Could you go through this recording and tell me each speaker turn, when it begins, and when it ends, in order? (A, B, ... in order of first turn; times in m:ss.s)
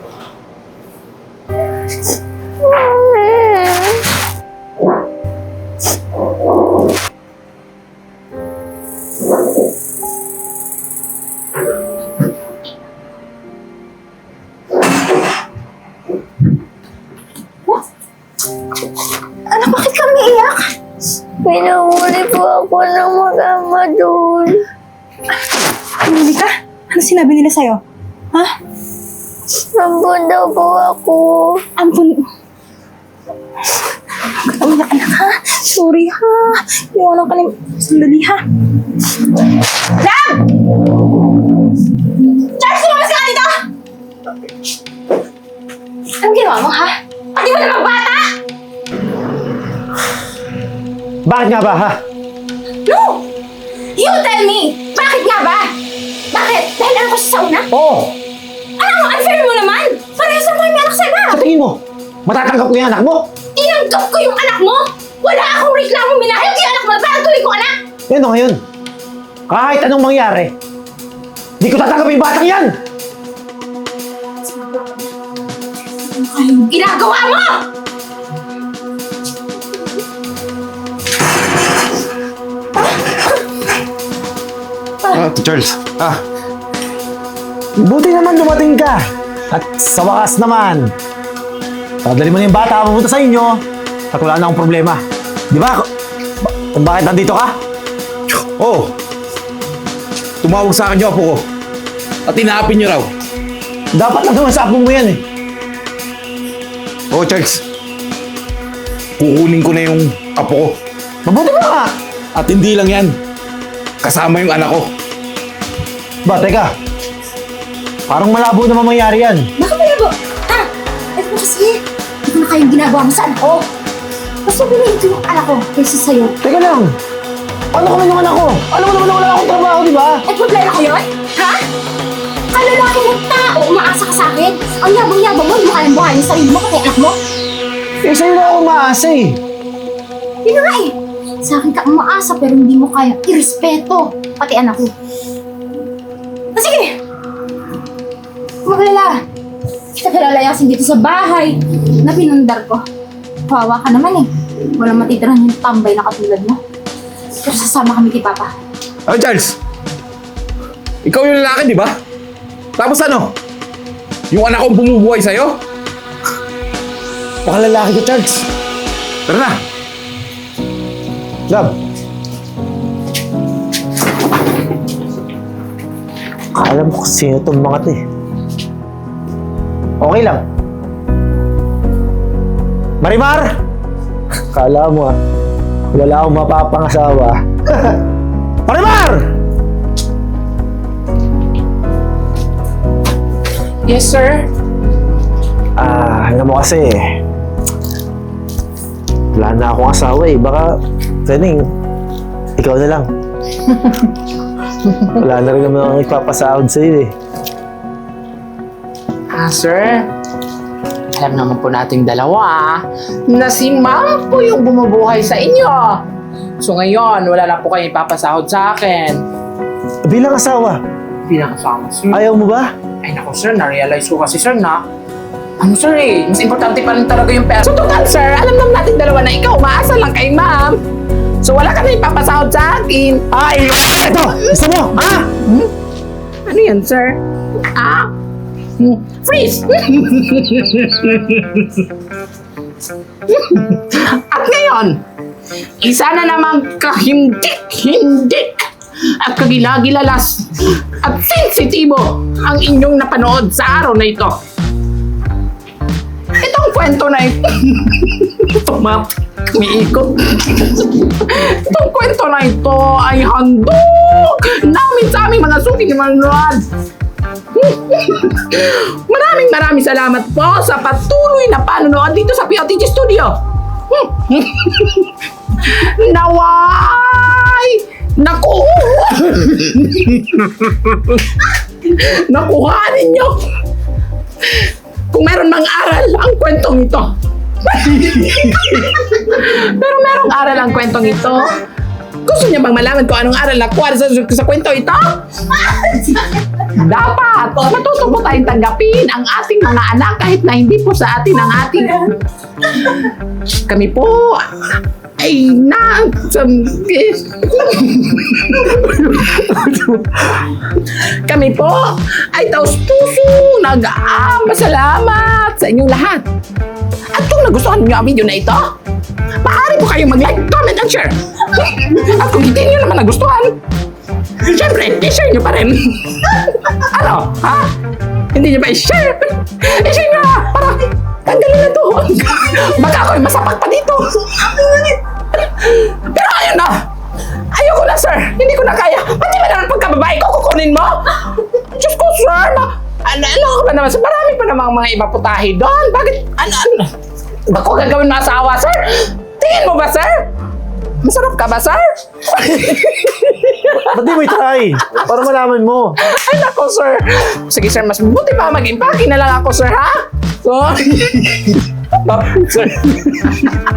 0:02.7-0:03.7 A
0:19.5-0:20.6 B
0:21.4-0:24.6 A
0:26.0-0:27.8 B
0:29.8-0:31.6 A
0:31.8-0:32.2 B
0:34.5-0:38.4 B
0:39.9-0:40.5 B
0:42.4-0:43.6 B
0:46.2-0:48.3 B
0:51.2-0:52.0 C
0:52.8-0:53.2 B
0:54.0-0:55.7 B
0:56.3-0:57.7 B
0:57.7-0:58.2 C
0:58.8-1:01.4 B
1:01.3-1:03.2 C
1:03.6-1:07.8 B
1:08.1-1:08.6 C
1:09.5-1:10.5 C
1:11.6-1:12.8 C
1:16.0-1:17.6 B
1:25.1-1:26.2 D
1:27.8-1:30.9 C
1:32.0-1:33.6 C
1:34.1-1:35.9 C
1:36.7-1:37.6 C
1:38.6-1:38.9 D
1:40.4-1:41.4 D
1:42.3-1:43.1 D
1:43.9-1:45.2 C
1:47.1-1:47.6 D
1:49.2-1:50.8 D
1:51.2-1:51.9 C
1:52.3-1:53.2 D
1:54.0-1:54.9 D
1:56.2-1:56.7 C
1:58.1-1:59.5 C
1:59.6-2:03.7 B
2:04.4-2:06.3 B
2:06.4-2:06.9 C
2:07.7-2:10.2 C
2:10.3-2:11.6 B
2:12.5-2:17.2 B
2:18.0-2:19.4 C
2:20.4-2:24.9 B
2:26.5-2:26.9 B
2:28.6-2:29.2 B
2:30.0-2:32.8 B
2:33.5-2:36.6 B
2:37.4-2:38.5 B
2:39.1-2:39.6 D
2:41.0-2:42.0 D
2:42.8-2:43.3 D
2:44.3-2:45.6 D
2:47.4-2:48.4 C
2:49.3-2:49.5 D
2:51.5-2:51.8 C
2:56.5-2:58.0 C
3:00.0-3:00.4 C
3:03.0-3:03.5 C
3:04.5-3:05.2 C
3:05.9-3:08.0 C
3:08.6-3:09.3 C
3:13.9-3:14.5 E
3:15.8-3:17.1 C
3:19.3-3:21.7 C
3:22.6-3:23.1 C
3:25.2-3:27.1 C
3:29.3-3:30.1 E
3:31.2-3:36.0 E
3:36.6-3:39.2 E
3:40.0-3:40.8 C
3:41.2-3:42.3 E
3:42.1-3:42.7 C
3:43.0-3:44.8 E
3:45.6-3:50.8 E
3:51.4-3:53.2 E
3:53.3-3:55.3 C
3:55.4-3:55.7 E
3:56.4-3:57.2 E
3:57.7-3:58.1 E
3:58.8-4:01.8 E
4:03.3-4:05.0 E
4:05.8-4:08.7 E
4:09.2-4:14.4 E
4:16.4-4:26.6 E
4:27.5-4:43.4 E
4:44.5-4:47.1 E
4:47.6-4:51.5 E
4:52.2-4:55.2 E
4:55.9-4:56.2 E
4:56.7-5:02.2 E
5:03.7-5:16.3 E
5:17.1-5:18.7 E
5:19.4-5:23.6 E
5:24.4-5:27.7 E
5:28.3-5:36.8 E
5:37.5-5:46.9 E
5:47.5-5:50.3 E
5:51.0-5:53.9 E
5:53.9-5:56.0 C
5:56.0-6:03.6 E